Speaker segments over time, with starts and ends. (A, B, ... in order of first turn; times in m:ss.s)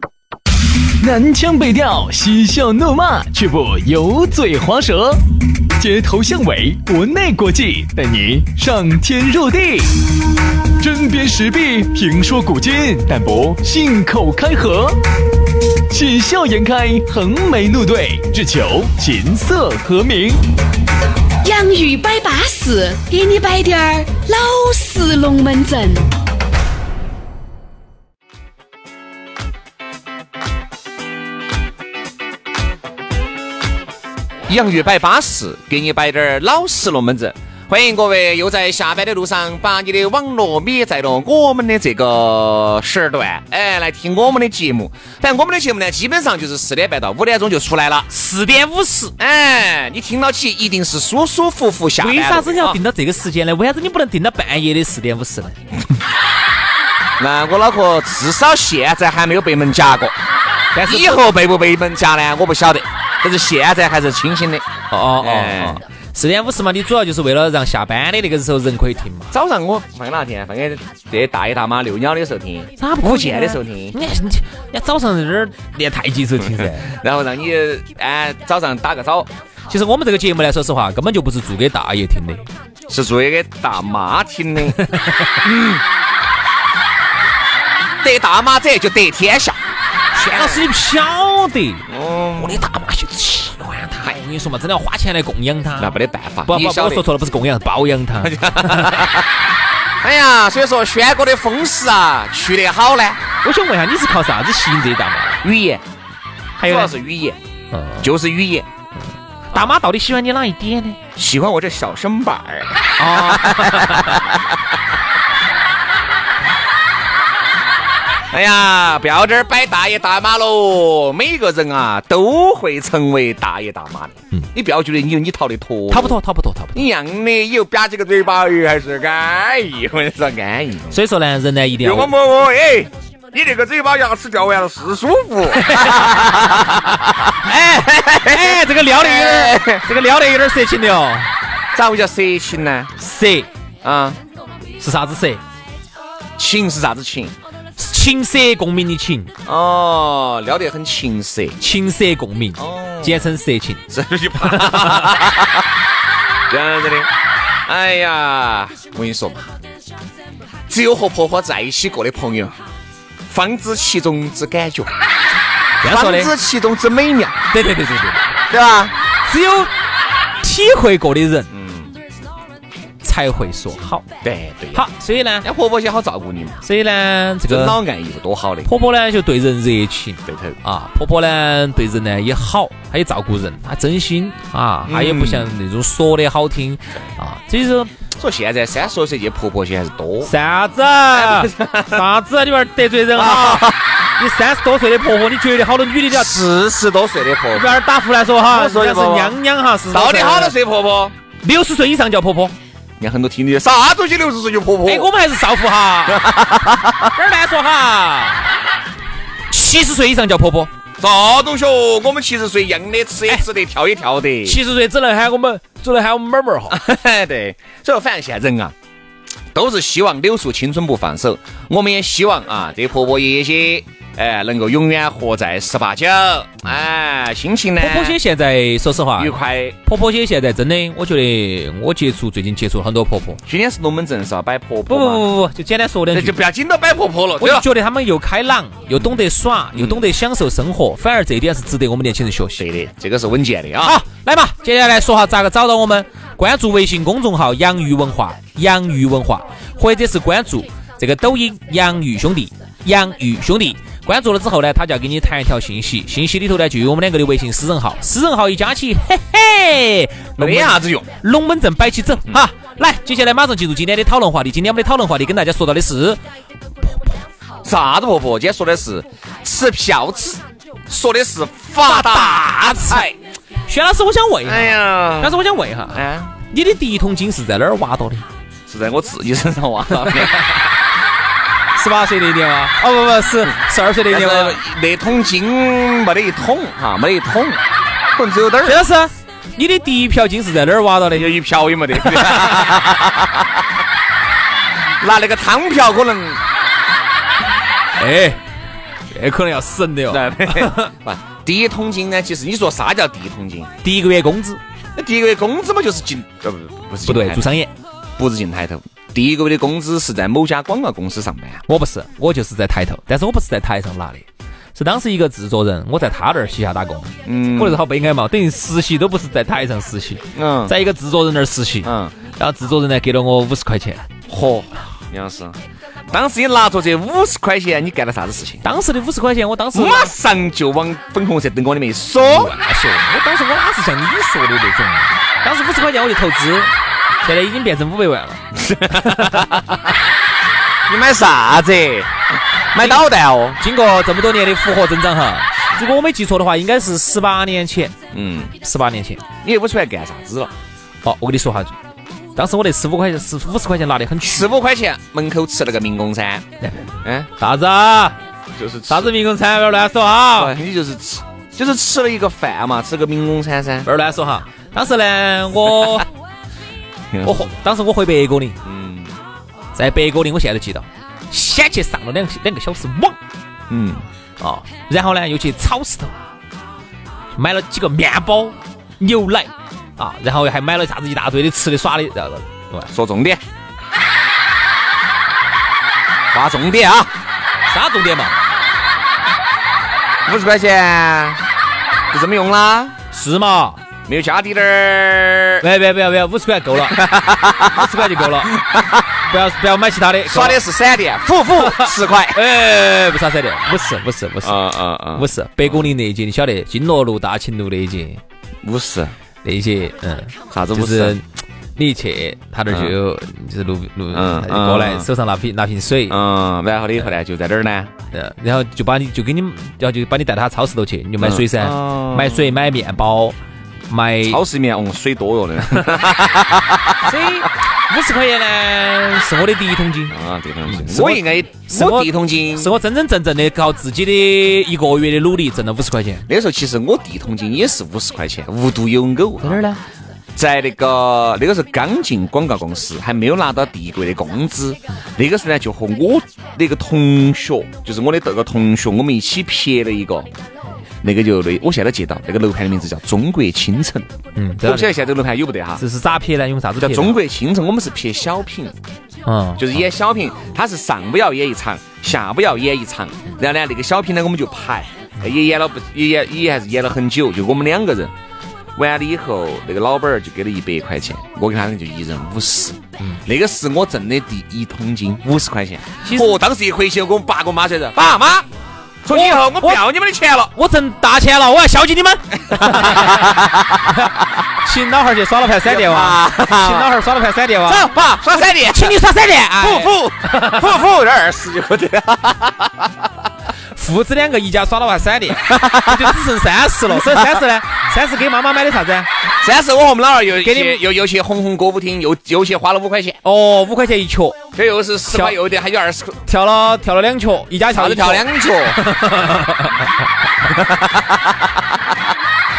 0:01.0-0:05.2 A
0:05.8-0:10.0 A
0:10.8-0:15.0 A
0:15.9-0:20.4 A
0:21.4-0:26.1 B
0:34.5-0:48.1 C
0:48.1-0:49.1 D
0:49.2-0:52.8 C
0:52.0-0:55.6 D
0:57.2-1:00.1 C
1:00.7-1:01.2 D
1:00.8-1:04.6 C
1:04.9-1:09.3 D
1:05.2-1:05.8 C
1:09.3-1:14.0 C
1:12.8-1:16.9 D
1:16.4-1:19.3 C
1:19.7-1:22.5 D
1:22.9-1:24.8 C
1:24.8-1:25.3 D
1:25.4-1:25.8 C
1:28.0-1:29.6 C
1:30.1-1:31.8 D
1:30.2-1:30.7 C
1:31.9-1:32.6 C
1:32.4-1:39.1 D
1:35.8-1:37.1 C
1:38.2-1:39.4 C
1:40.0-1:43.2 C
1:43.4-1:45.4 D
1:45.4-1:45.8 C
1:46.6-1:46.9 D
1:46.6-1:47.4 C
1:47.7-1:48.1 D
1:48.0-1:48.7 C
1:49.5-1:51.0 D
1:51.2-1:54.7 C
1:53.0-1:54.2 D
1:58.3-2:06.2 C
2:05.9-2:06.8 D
2:06.7-2:11.0 C
2:10.9-2:12.1 D
2:11.8-2:19.8 C
2:15.5-2:21.3 D
2:21.7-2:22.9 C
2:23.0-2:23.5 D
2:23.8-2:24.2 C
2:24.8-2:25.4 D
2:26.4-2:27.3 C
2:27.8-2:29.3 D
2:29.4-2:31.6 C
2:31.6-2:33.8 D
2:32.6-2:33.3 C
2:33.9-2:35.7 C
2:34.4-2:35.2 D
2:36.5-2:37.1 C
2:37.6-2:39.5 C
2:40.7-2:42.6 C
2:43.3-2:45.0 C
2:45.8-2:46.3 D
2:45.8-2:47.4 C
2:47.5-2:48.4 D
2:48.5-2:48.9 C
2:49.2-2:49.7 D
2:50.4-2:51.5 D
2:51.5-2:51.9 C
2:53.0-2:54.0 D
2:54.2-2:54.8 C
2:54.7-2:55.5 D
2:55.4-2:56.6 C
2:56.6-2:57.8 D
2:57.4-2:58.7 C
2:58.6-3:07.9 D
3:00.2-3:00.6 C
3:04.8-3:05.5 C
3:08.1-3:10.3 C
3:10.2-3:16.4 D
3:11.1-3:12.0 C
3:13.1-3:13.8 C
3:16.1-3:17.8 C
3:17.5-3:20.5 D
3:18.5-3:19.4 C
3:19.9-3:21.1 C
3:21.4-3:22.5 D
3:23.0-3:25.1 C
3:24.8-3:26.3 D
3:26.1-3:27.1 C
3:27.1-3:28.5 D
3:29.5-3:30.7 D
3:31.0-3:34.6 C
3:34.4-3:36.8 D
3:36.7-3:38.7 C
3:39.5-3:48.2 C
3:47.8-3:53.4 D
3:49.2-3:49.8 C
3:53.4-3:55.3 C
3:54.9-3:56.4 D
3:56.1-3:57.7 C
3:57.4-4:02.6 D
3:59.7-4:00.1 C
4:02.6-4:04.0 C
4:03.8-4:26.2 D
4:20.4-4:21.1 C
4:26.8-4:27.1 D
4:27.6-4:33.2 C
4:31.8-4:33.1 D
4:33.6-4:38.3 D
4:34.4-4:36.3 C
4:38.7-4:40.6 C
4:40.0-4:40.3 D
4:41.7-4:44.6 D
4:44.1-4:47.6 C
4:48.1-4:48.8 C
4:48.6-4:51.4 D
4:51.1-4:53.6 C
4:51.9-4:52.8 D
4:55.0-4:56.4 C
4:58.0-4:58.4 D
4:59.1-5:00.9 D
5:00.1-5:03.7 C
5:03.8-5:04.6 D
5:05.0-5:07.6 C
5:07.0-5:07.7 D
5:08.2-5:11.6 C
5:11.7-5:24.0 D
5:17.2-5:17.8 C
5:20.3-5:20.7 C
5:21.8-5:22.1 C
5:24.3-5:25.6 C
5:26.1-5:28.6 C
5:28.6-5:30.1 D
5:29.7-5:32.5 C
5:32.2-5:36.7 D
5:37.2-5:39.6 D
5:38.5-5:39.8 C
5:40.9-5:43.6 C
5:42.8-5:43.1 D
5:43.6-5:48.0 D
5:48.1-5:48.5 C
5:48.6-5:49.2 D
5:49.4-5:50.5 C
5:51.0-5:51.7 D
5:52.4-5:54.5 D
5:54.2-5:56.5 C
5:57.0-5:57.3 C
5:57.4-5:58.2 D
5:58.5-5:59.1 C
5:58.9-6:00.5 D
6:00.4-6:03.9 C
6:03.8-6:06.1 D
6:07.1-6:07.5 C
6:07.2-6:08.6 D
6:08.6-6:09.2 C
6:09.7-6:13.2 D
6:13.7-6:14.0 C
6:14.4-6:16.1 D
6:17.4-6:22.9 D
6:22.9-6:23.4 C
6:26.3-6:27.1 C
6:27.7-6:28.3 D
6:30.2-6:31.4 C
6:32.1-6:33.0 C
6:33.1-6:33.8 D
6:34.1-6:35.6 C
6:35.6-6:37.0 D
6:36.8-6:39.0 C
6:37.6-6:38.6 D
6:39.3-6:40.6 D
6:40.2-6:42.4 C
6:41.6-6:48.2 D
6:44.4-6:45.8 C
6:48.6-6:49.1 C
6:49.4-6:51.2 D
6:50.5-6:51.2 C
6:51.8-6:56.2 D
6:52.7-6:52.9 C
6:54.1-6:55.1 C
6:56.1-6:57.9 C
6:58.1-7:03.4 D
7:01.2-7:02.6 C
7:03.9-7:04.4 D
7:04.3-7:07.2 C
7:07.0-7:10.1 D
7:10.1-7:12.7 C
7:10.7-7:16.2 D
7:16.3-7:19.6 C
7:19.4-7:19.8 D
7:20.3-7:30.3 C
7:31.0-7:34.1 C
7:34.4-7:35.0 D
7:34.6-7:35.8 C
7:35.8-7:37.2 D
7:36.8-7:38.7 C
7:39.2-7:39.8 D
7:39.6-7:48.1 C
7:48.8-7:58.5 C
7:56.0-7:56.4 D
7:59.0-8:00.5 C
7:59.1-7:59.8 D
8:00.5-8:10.6 D
8:02.5-8:04.1 C
8:05.6-8:06.9 C
8:07.6-8:09.0 C
8:09.6-8:13.1 C
8:13.7-8:19.1 D
8:15.3-8:16.2 C
8:16.9-8:17.4 C
8:19.4-8:23.2 C
8:20.4-8:20.8 D
8:23.2-8:24.4 D
8:24.5-8:26.2 C
8:25.1-8:25.4 D
8:26.3-8:29.9 D
8:27.7-8:28.8 C
8:30.4-8:31.9 C